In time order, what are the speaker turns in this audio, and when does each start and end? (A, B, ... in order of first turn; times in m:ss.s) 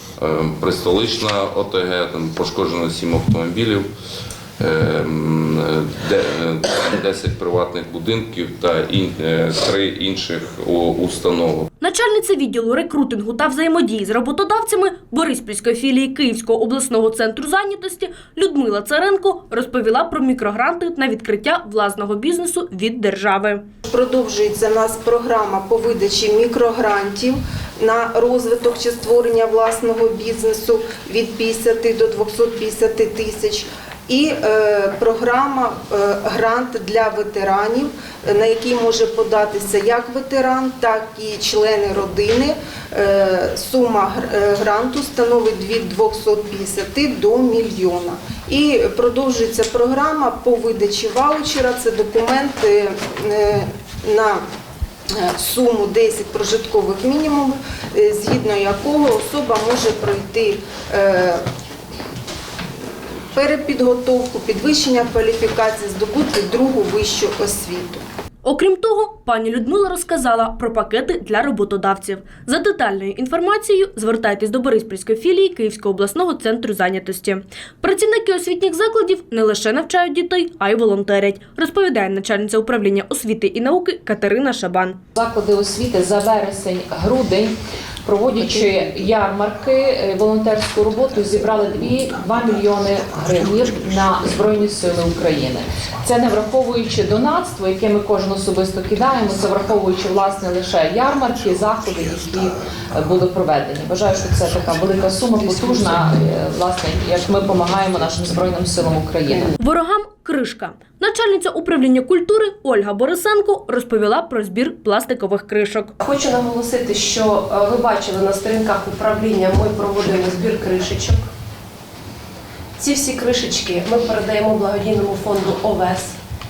0:00.2-0:03.9 A
0:04.6-0:11.7 A
0:11.8-0:23.6 B
0:23.9-0:54.4 C
0:55.2-1:01.4 C
1:03.3-1:08.0 C
1:08.4-1:25.0 B
1:25.1-1:49.5 D
1:49.6-1:56.0 B
1:56.0-2:01.2 E
2:02.8-2:06.1 E